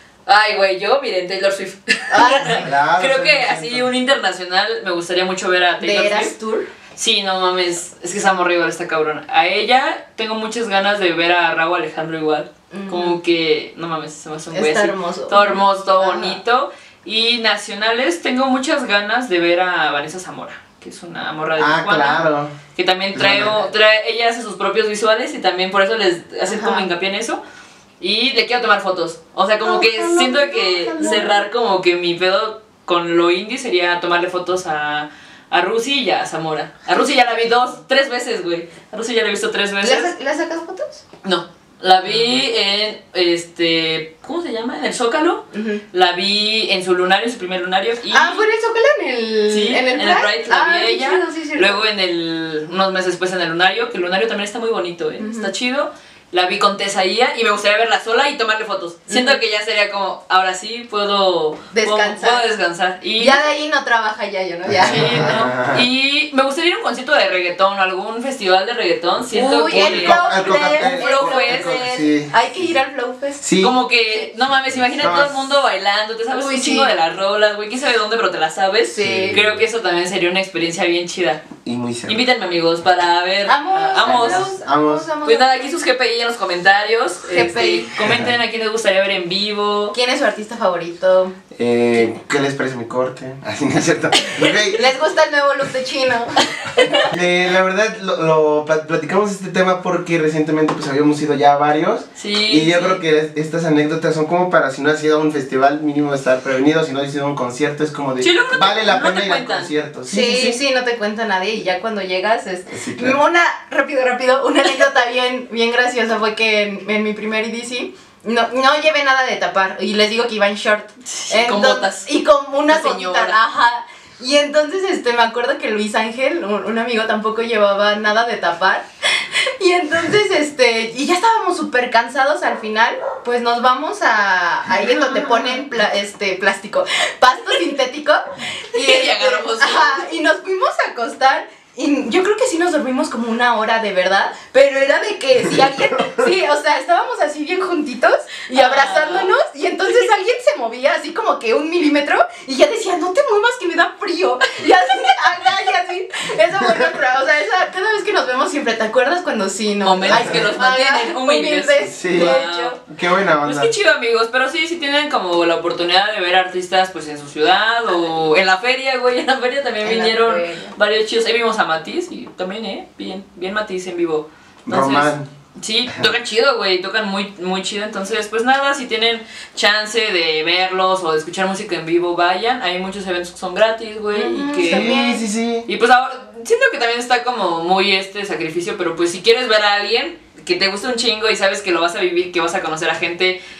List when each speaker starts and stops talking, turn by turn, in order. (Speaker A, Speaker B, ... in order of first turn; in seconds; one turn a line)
Speaker A: 0.2-6.3
Speaker B: 2.1-2.7
Speaker C: 2.5-3.9
Speaker B: 5.8-6.7
Speaker A: 7.0-22.2
Speaker B: 12.7-13.2
Speaker B: 14.5-16.4
Speaker C: 21.6-22.6
Speaker A: 22.7-27.4
Speaker C: 23.1-23.6
Speaker B: 26.5-26.9
Speaker A: 28.0-40.1
Speaker B: 29.6-31.4
Speaker B: 39.8-41.0
Speaker A: 41.2-48.4
Speaker B: 45.5-45.8
Speaker B: 48.1-51.8
Speaker A: 49.5-63.5
Speaker B: 55.2-55.5
Speaker B: 59.1-59.4
Speaker B: 61.7-62.4
Speaker B: 63.2-65.5
Speaker C: 64.7-65.8
Speaker A: 64.8-71.8
Speaker B: 69.3-73.4
Speaker C: 69.7-72.3
Speaker C: 73.4-73.7
Speaker A: 73.6-81.5
Speaker C: 75.0-75.3
Speaker B: 76.3-76.9
Speaker B: 78.9-79.4
Speaker C: 79.0-79.6
Speaker C: 81.6-82.2
Speaker A: 82.1-84.5
Speaker B: 83.5-85.5
Speaker C: 84.0-85.1
Speaker A: 85.2-89.9
Speaker B: 87.3-87.9
Speaker C: 88.0-88.3
Speaker B: 89.9-91.3
Speaker C: 91.6-94.9
Speaker B: 94.7-97.1
Speaker C: 97.0-110.6
Speaker A: 102.2-103.0
Speaker A: 108.2-109.7
Speaker B: 110.1-128.8
Speaker C: 112.7-113.2
Speaker A: 121.0-122.1
Speaker A: 122.7-123.4
Speaker B: 129.6-162.8
Speaker A: 138.7-140.0
Speaker A: 148.5-149.3
Speaker A: 159.8-162.8
Speaker C: 160.0-160.4
Speaker C: 161.8-163.7
Speaker A: 163.4-184.9
Speaker B: 169.8-170.7
Speaker C: 174.7-175.3
Speaker B: 184.1-185.2
Speaker C: 184.7-185.7
Speaker A: 185.7-193.4